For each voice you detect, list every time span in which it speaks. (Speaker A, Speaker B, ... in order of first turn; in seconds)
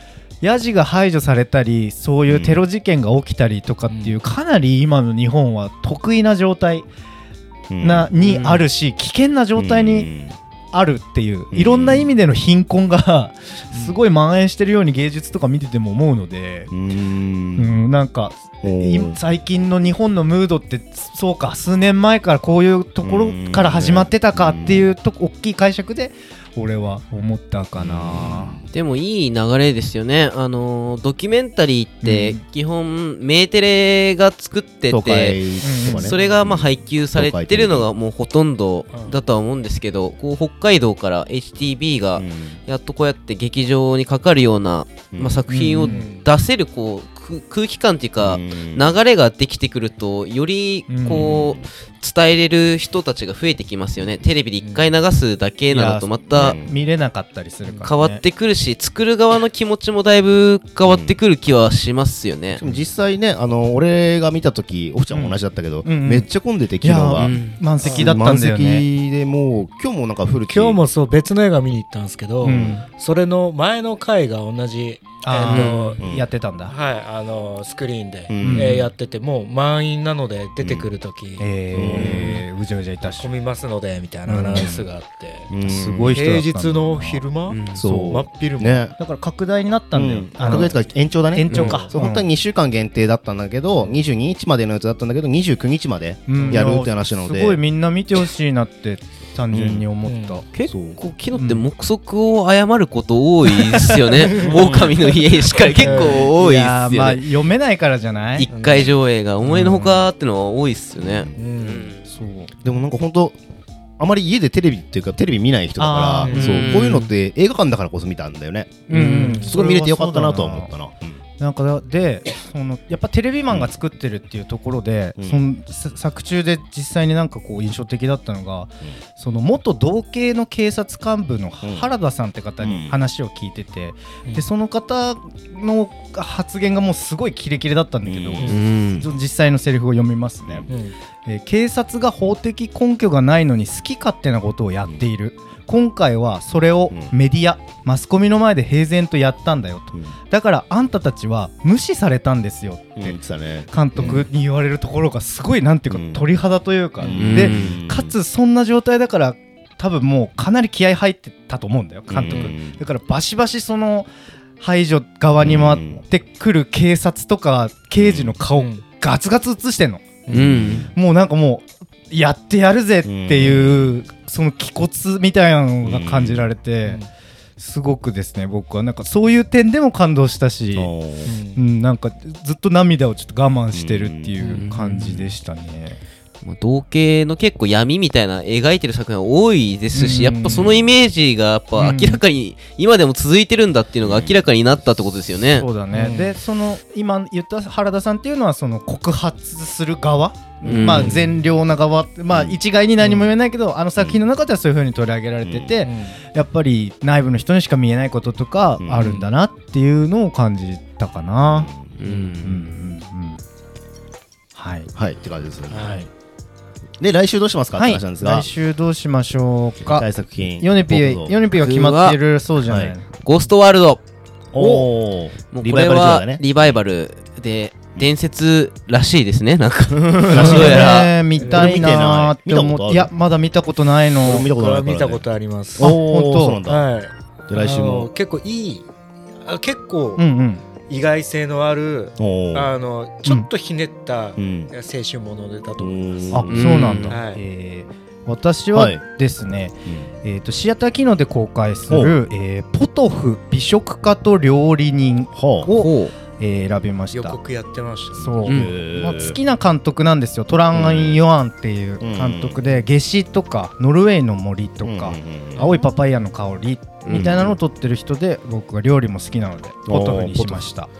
Speaker A: 0.4-6.9, 7.8-10.1, 10.7-16.7, 17.6-28.6, 32.0-32.4, 35.6-36.1, 45.5-46.0, 50.9-51.3, 55.7-58.2, 65.1-66.3, 66.8-68.8, 72.4-72.8, 75.2-76.7, 78.4-78.8, 81.4-83.3, 84.3-84.8, 85.6-87.3, 89.0-90.8, 91.3-92.3, 96.3-100.4, 101.3-101.7, 105.8-108.5, 109.4-110.1, 112.0-112.5, 115.8-116.8, 118.9-120.7, 121.4-140.7, 141.2-153.2, 153.7-164.1, 164.6-170.2, 170.8-177.0, 177.6-180.9, 181.6-186.0, 189.9-190.9, 191.8-192.2, 195.5-211.7, 212.4-213.4, 214.5-214.9, 217.7-220.1, 220.6-223.0, 224.6-224.9, 230.3-234.5, 235.8-236.6, 240.2-240.6, 246.3-257.4, 258.1-270.9
Speaker B: 2.3-2.6, 7.7-8.1, 9.6-10.4, 11.5-12.1, 16.7-17.8, 18.6-19.2, 23.0-24.9, 27.8-28.6, 34.9-37.9, 42.1-42.6, 45.1-45.4, 48.2-48.9, 51.1-51.7, 56.3-56.7, 60.9-61.1, 62.6-70.8, 72.4-72.8, 76.0-76.3, 78.3-78.9, 80.6-80.9, 81.7-82.4, 85.5-86.3, 87.8-89.0, 89.9-97.6, 99.5-99.8, 100.6-101.0, 111.0-111.3, 112.6-113.3, 114.0-121.2, 131.6-131.9, 132.6-133.0, 138.1-138.5, 140.4-140.7, 153.0-154.3, 155.9-156.2, 157.0-158.1, 162.1-162.8, 165.4-166.0, 168.0-168.4, 170.4-170.9, 173.0-174.0, 175.8-176.5, 180.7-181.3, 183.7-184.4, 194.0-194.4, 202.3-202.6, 205.4-205.8, 208.8-209.1, 211.5-212.0, 214.9-216.0, 217.0-218.5, 219.8-221.3, 222.7-222.9, 224.5-226.8, 230.0-233.1, 234.2-236.9, 237.5-238.1, 242.2-242.7, 244.4-244.7, 245.8-246.7, 248.7-249.0, 251.9-252.1, 255.3-255.7, 258.2-259.4, 260.7-261.2, 262.0-262.6, 264.8-265.8, 267.1-267.6, 269.9-270.7
Speaker C: 3.9-4.2, 8.2-8.7, 13.7-14.0, 36.1-36.4, 38.9-39.2, 45.8-46.3, 54.6-55.0, 57.6-57.9, 67.8-68.2, 70.5-76.0, 76.7-82.4, 83.0-85.5, 86.1-88.8, 90.5-90.7, 91.5-91.9, 93.8-94.0, 96.3-96.8, 100.0-100.4, 103.8-104.9, 105.8-106.3, 108.5-108.9, 111.3-111.9, 116.2-116.6, 119.0-119.5, 140.7-140.9, 168.6-168.8, 170.2-170.7, 176.8-177.1, 181.2-181.6, 184.4-184.7, 195.9-196.3, 200.7-201.4, 203.0-203.3, 205.8-206.2, 208.9-209.3, 212.0-212.3, 215.7-216.1, 231.4-231.9, 234.3-236.0, 236.7-238.9, 239.4-240.2, 240.8-247.4, 257.1-258.3
Speaker D: 28.7-56.6, 57.8-62.6, 67.2-67.6, 75.5-75.9, 87.5-87.8, 100.5-107.2, 108.3-112.0, 116.3-117.1, 118.9-119.4, 138.4-139.1, 157.2-157.8, 170.3-170.9, 184.4-185.3, 186.4-195.7, 200.6-201.1, 212.0-212.8, 221.5-222.2, 223.2-224.0, 225.5-231.1, 246.5-247.2, 255.8-256.1, 258.4-258.7, 267.0-267.3